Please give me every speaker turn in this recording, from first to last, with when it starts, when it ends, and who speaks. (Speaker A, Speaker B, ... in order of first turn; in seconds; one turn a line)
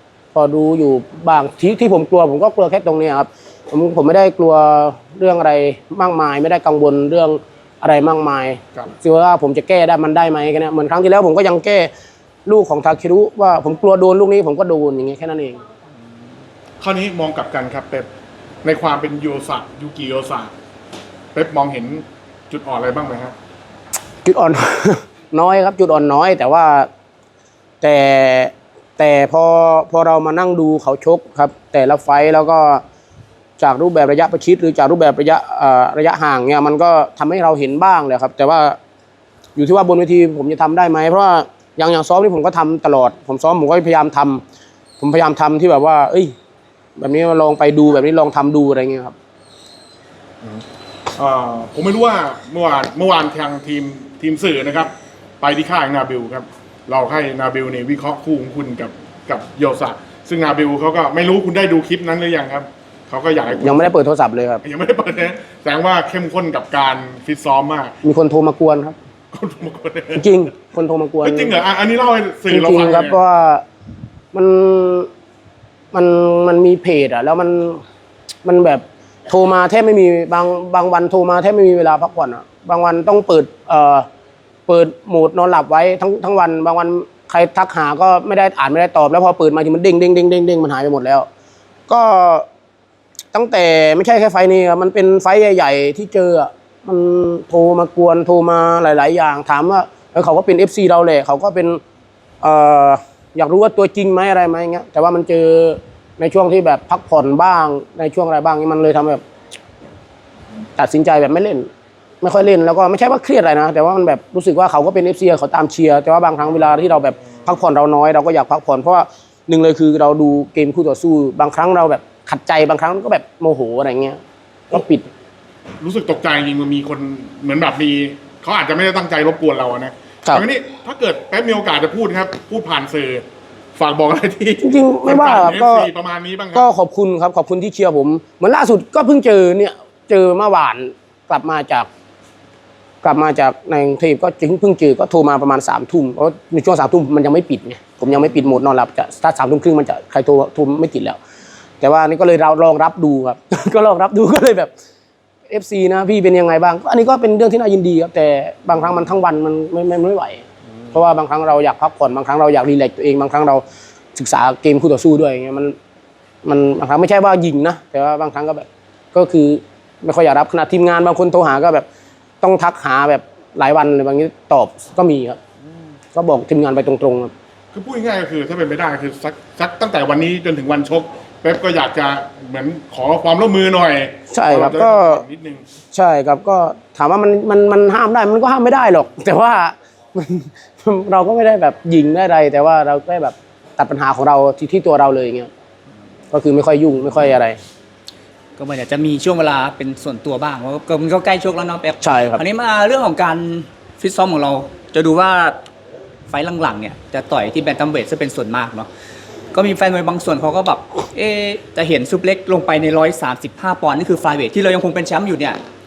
Speaker A: 0.3-11.9
Speaker A: 12.5-15.6
Speaker B: 16.8-18.1
Speaker B: 18.6-20.5
Speaker B: 21.3-23.4
Speaker A: 24.2-26.9
Speaker A: 27.8-32.8
Speaker A: 33.6-38.8
Speaker A: 39.6-44.4
Speaker A: 45.0-46.3
Speaker A: 47.0-49.1
Speaker B: 51.2-63.9
Speaker A: 63.6-64.6
Speaker B: 64.6-68.0
Speaker A: 68.0-69.0
Speaker B: 69.3-70.3
Speaker A: 70.2-71.6
Speaker B: 71.2-73.2
Speaker A: 72.5-73.6
Speaker A: 74.3-75.1
Speaker A: 75.9-77.8
Speaker A: 78.5-84.1
Speaker A: 84.7-91.3
Speaker A: 91.9-92.5
Speaker A: 93.3-101.8
Speaker A: 102.4-109.2
Speaker A: 110.8-111.7
Speaker A: 112.2-125.1
Speaker B: 125.8-136.7
Speaker A: 134.6-135.9
Speaker A: 136.5-141.9
Speaker A: 143.0-151.2
Speaker A: 151.8-154.7
Speaker A: 155.5-163.6
Speaker A: 164.2-165.8
Speaker A: 166.4-171.9
Speaker A: 172.4-175.4
Speaker A: 176.1-177.3
Speaker B: 177.7-185.7
Speaker A: 184.3-185.2
Speaker A: 185.9-195.5
Speaker A: 196.3-197.6
Speaker C: 198.6-205.6
Speaker A: 202.0-202.4
Speaker C: 206.3-208.9
Speaker C: 209.5-215.6